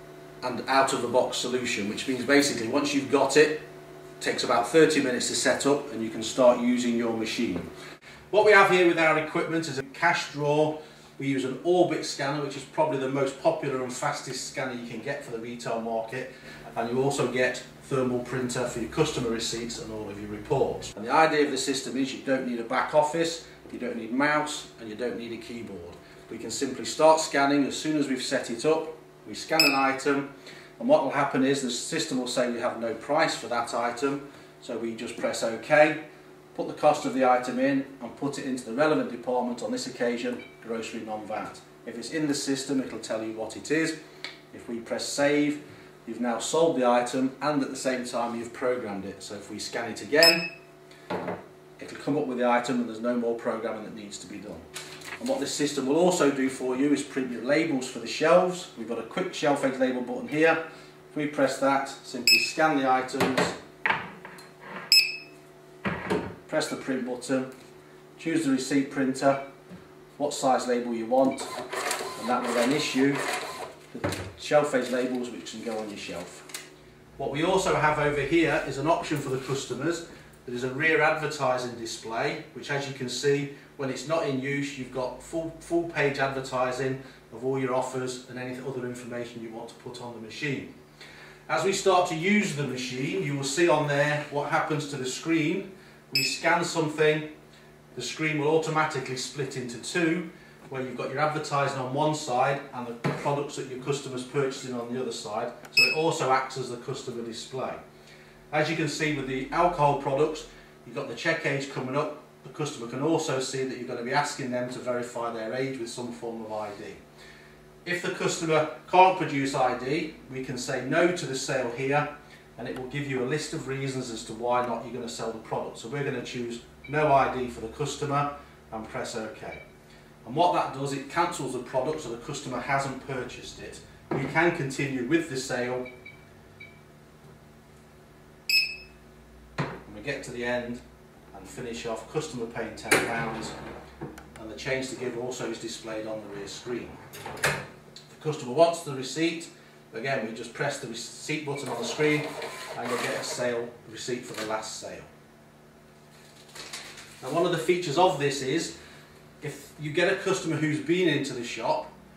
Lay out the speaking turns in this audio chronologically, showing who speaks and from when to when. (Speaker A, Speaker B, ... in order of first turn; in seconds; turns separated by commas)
Speaker A: 0.4-3.6, Speaker A: 4.2-7.7, Speaker A: 8.3-36.0, Speaker A: 36.5-44.0, Speaker A: 44.5-50.5, Speaker A: 51.8-54.7, Speaker A: 55.2-60.6, Speaker A: 61.1-63.6, Speaker A: 66.5-67.5, Speaker A: 68.2-69.4, Speaker A: 70.2-71.5, Speaker A: 72.2-73.2, Speaker A: 73.9-76.5, Speaker A: 77.2-90.7, Speaker A: 91.5-97.3, Speaker A: 97.9-107.8, Speaker A: 108.5-117.0, Speaker A: 117.8-129.6, Speaker A: 130.2-135.9, Speaker A: 139.8-143.6, Speaker A: 144.4-147.0, Speaker A: 148.1-155.1, Speaker A: 157.2-158.8, Speaker A: 159.4-161.9